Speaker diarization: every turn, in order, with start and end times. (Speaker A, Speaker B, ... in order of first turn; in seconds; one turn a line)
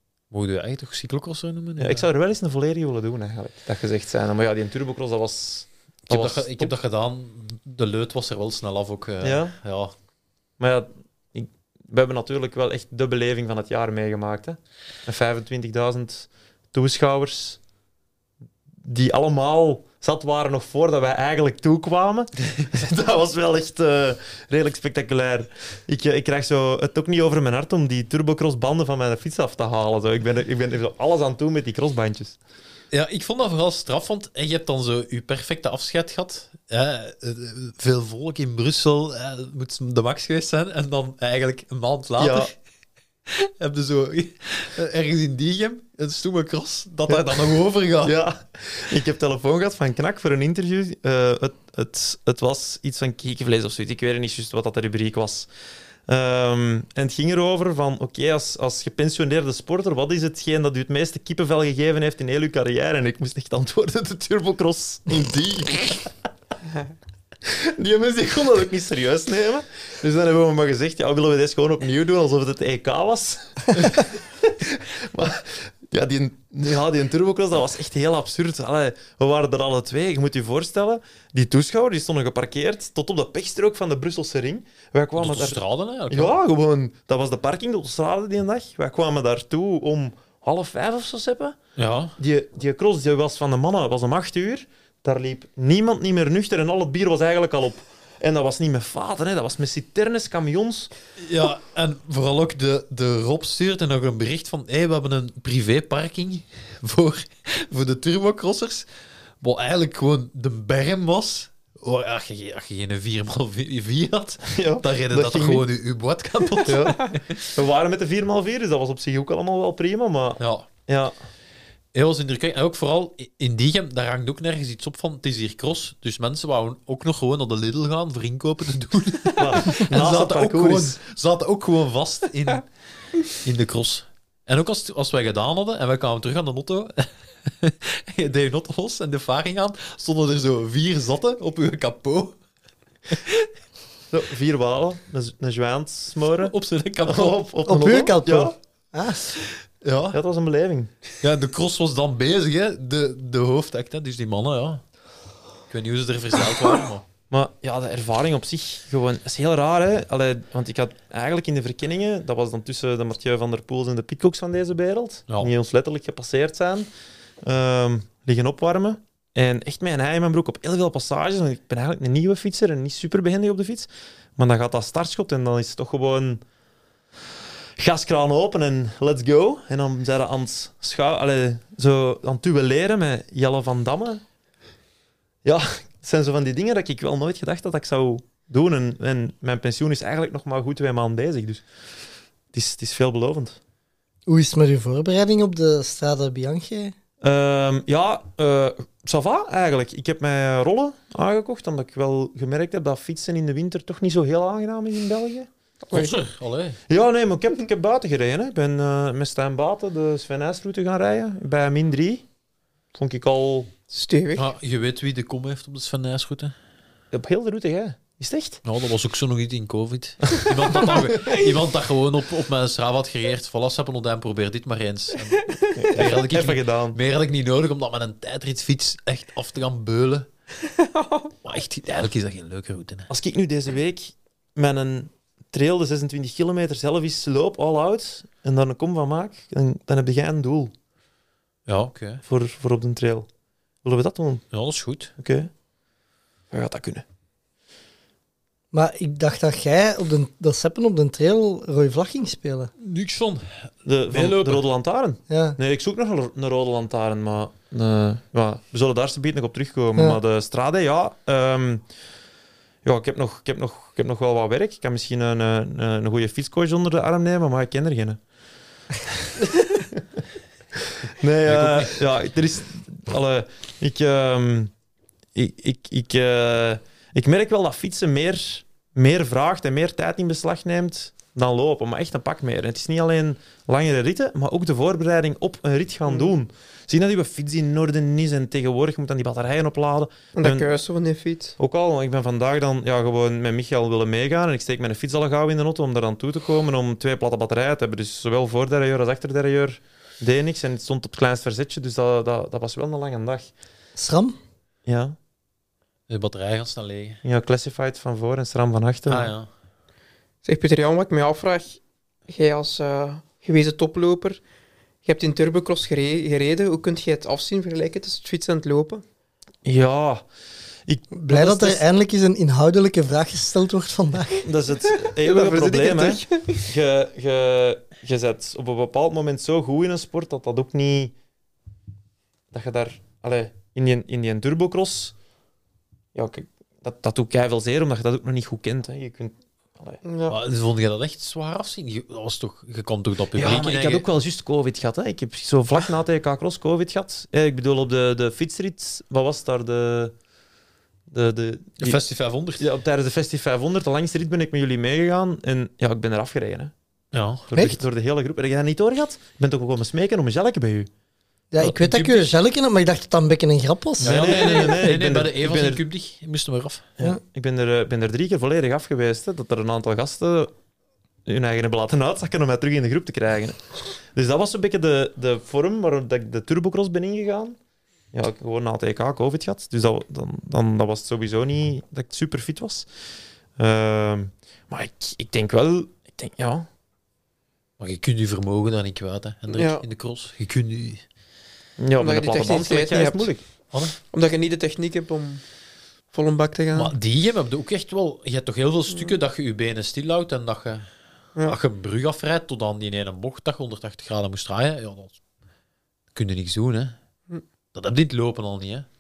Speaker A: 0.3-2.1
Speaker B: 1.8-6.7
Speaker A: 6.1-9.9
Speaker B: 9.2-9.6
Speaker B: 10.6-17.6
Speaker B: 18.9-32.4
Speaker A: 32.9-42.5
Speaker B: 42.2-42.5
Speaker A: 43.3-48.2
Speaker B: 47.1-47.4
Speaker B: 48.0-55.5
Speaker B: 56.1-66.1
Speaker B: 67.5-91.6
Speaker A: 85.2-86.4
Speaker A: 91.8-92.2
Speaker B: 92.2-100.9
Speaker A: 101.2-108.9
Speaker A: 109.4-117.5
Speaker B: 114.5-115.7
Speaker B: 116.7-121.2
Speaker A: 120.4-120.7
Speaker A: 121.9-132.7
Speaker B: 129.4-131.0
Speaker A: 133.4-142.4
Speaker A: 143.1-143.5
Speaker B: 144.1-146.5
Speaker A: 146.4-147.4
Speaker B: 147.1-148.5
Speaker C: 147.7-149.2
Speaker A: 149.8-150.2
Speaker B: 150.1-150.9
Speaker A: 151.2-154.8
Speaker A: 155.7-157.1
Speaker B: 157.3-166.9
Speaker A: 165.3-165.5
Speaker B: 167.4-176.4
Speaker B: 177.8-184.2
Speaker B: 185.4-191.6
Speaker B: 192.5-193.6
Speaker C: 194.3-196.9
Speaker B: 197.2-205.5
Speaker D: 205.9-206.2
Speaker A: 205.9-206.8
Speaker B: 206.9-212.2
Speaker B: 212.9-213.7
Speaker D: 213.9-214.5
Speaker A: 214.3-216.5
Speaker B: 217.1-218.6
Speaker A: 218.7-230.3
Speaker B: 220.3-220.9
Speaker D: 225.5-225.9
Speaker B: 225.8-227.0
Speaker D: 230.7-231.3
Speaker A: 231.4-233.1
Speaker B: 233.1-240.7
Speaker A: 241.7-242.2
Speaker B: 242.3-243.3
Speaker B: 243.8-244.4
Speaker A: 244.5-245.1
Speaker B: 245.2-245.5
Speaker B: 246.5-247.0
Speaker C: 248.7-252.7
Speaker A: 252.8-254.7
Speaker B: 253.9-261.8
Speaker C: 255.3-255.6
Speaker B: 262.9-268.2
Speaker B: 269.1-269.8
Speaker B: 271.1-274.7
Speaker A: 271.5-272.0
Speaker B: 275.4-290.7
Speaker D: 286.1-286.3
Speaker D: 290.4-291.6
Speaker B: 291.6-303.5
Speaker C: 304.0-304.4
Speaker B: 304.9-305.2
Speaker A: 306.1-307.2
Speaker B: 307.2-309.3
Speaker A: 309.1-309.5
Speaker D: 310.4-314.4
Speaker D: 315.1-319.0
Speaker B: 319.6-320.2
Speaker B: 320.9-321.8
Speaker C: 321.1-324.4
Speaker B: 324.4-331.1
Speaker D: 325.1-326.6
Speaker B: 332.5-335.1
Speaker B: 336.1-340.0
Speaker D: 340.0-340.4
Speaker A: 340.3-344.1
Speaker B: 343.4-350.1
Speaker B: 351.1-352.0
Speaker A: 351.8-352.7
Speaker B: 352.6-356.7
Speaker A: 357.1-357.5
Speaker B: 357.5-360.9
Speaker C: 361.5-364.5
Speaker A: 361.6-362.3
Speaker A: 364.0-366.9
Speaker B: 364.0-365.8
Speaker B: 367.0-370.5
Speaker B: 371.3-377.6
Speaker B: 378.1-382.9
Speaker B: 383.6-386.7
Speaker A: 387.8-391.0
Speaker D: 389.5-389.8
Speaker B: 391.8-393.4
Speaker D: 392.0-393.3
Speaker A: 393.7-394.0
Speaker D: 394.1-395.4
Speaker D: 396.1-396.9
Speaker A: 396.7-400.9
Speaker A: 401.4-405.2
Speaker A: 406.1-407.0
Speaker A: 407.7-408.9